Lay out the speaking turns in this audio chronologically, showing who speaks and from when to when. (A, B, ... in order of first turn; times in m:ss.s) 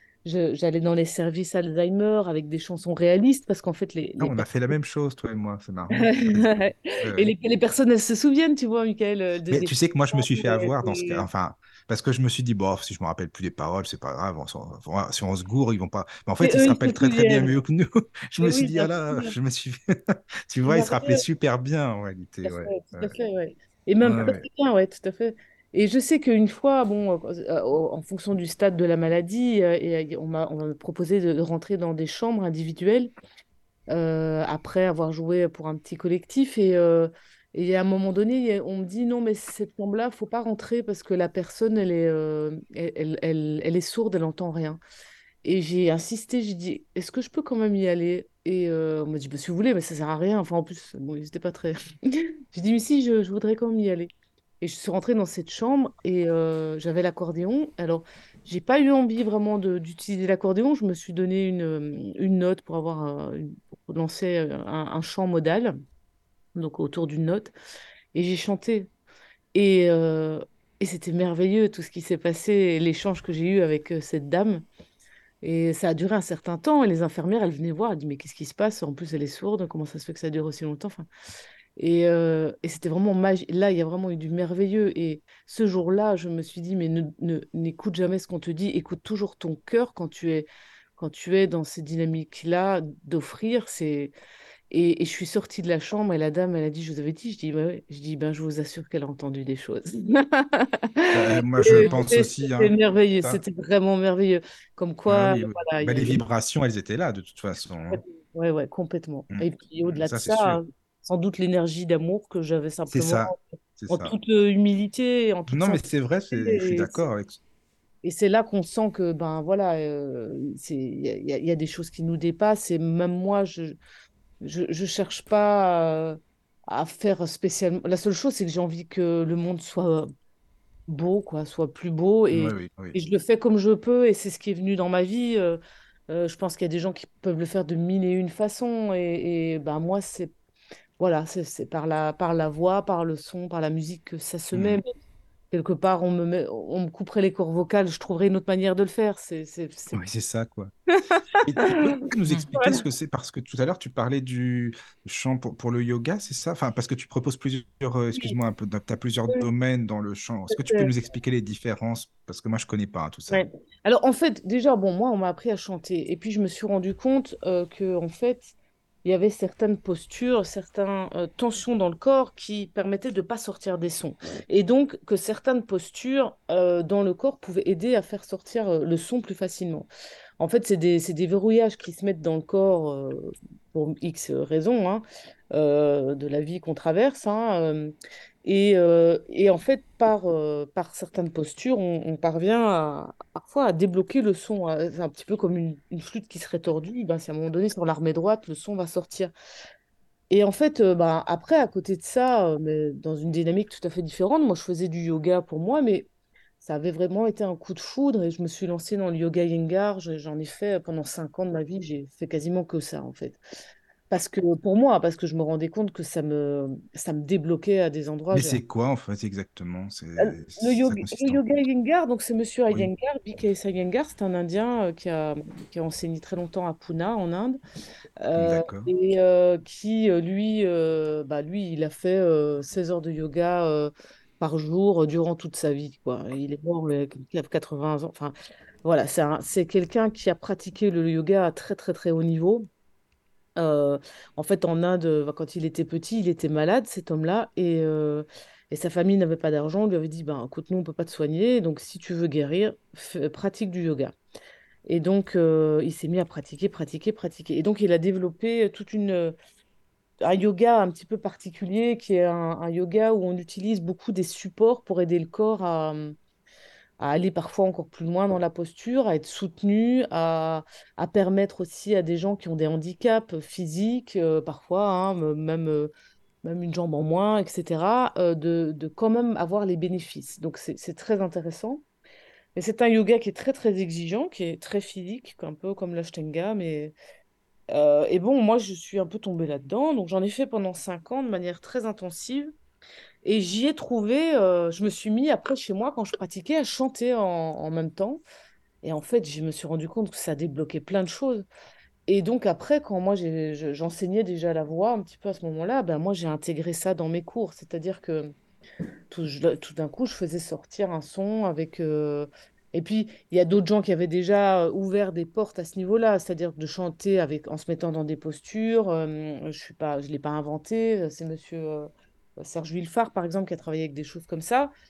0:00.2-0:04.5 A
0:04.2-0:06.5 B
0:06.0-0:11.2 A
0:07.0-0:07.3 B
0:09.5-0:23.1 B
0:16.4-0:17.5 A
0:18.4-0:19.3 A
0:20.7-0:21.2 A
0:22.4-0:33.1 A
0:24.0-0:24.4 B
0:33.9-0:44.8 A
0:45.4-1:05.7 A
1:06.6-1:07.5 A
1:08.1-1:08.9 A
1:09.5-1:14.6 A
1:15.4-1:21.1 A
1:21.8-1:34.1 A
1:34.7-1:46.2 A
1:41.1-1:43.4 B
1:45.1-1:48.0 B
1:47.9-1:53.4 A
1:49.3-1:50.6 B
1:52.9-1:54.1 B
1:53.9-1:57.0 A
1:55.5-1:57.4 B
1:58.0-2:03.8 A
2:04.4-2:10.1 A
2:10.9-2:20.3 A
2:12.3-2:13.0 B
2:21.0-2:24.9 A
2:24.5-2:24.8 B
2:25.5-2:30.1 A
2:29.9-2:30.7 B
2:31.1-2:31.8 A
2:31.4-2:43.4 B
2:32.5-2:32.8 A
2:40.5-2:40.9 A
2:43.3-2:48.5 A
2:49.0-2:59.9 A
3:00.4-3:07.9 A
3:08.4-3:19.3 A
3:20.3-3:26.1 A
3:26.6-3:33.4 A
3:34.1-3:38.6 A
3:38.3-3:41.5 B
3:40.2-3:47.6 A
3:48.2-4:02.7 A
3:48.4-3:48.9 B
4:03.6-4:14.1 A
4:14.9-4:19.4 A
4:20.2-4:26.2 A
4:27.0-4:35.9 A
4:36.4-4:41.8 A
4:42.6-4:46.9 A
4:47.7-4:52.5 A
4:53.2-4:58.2 A
4:58.8-5:01.5 A
5:02.1-5:08.3 A
5:09.1-5:21.9 A
5:22.4-5:24.7 A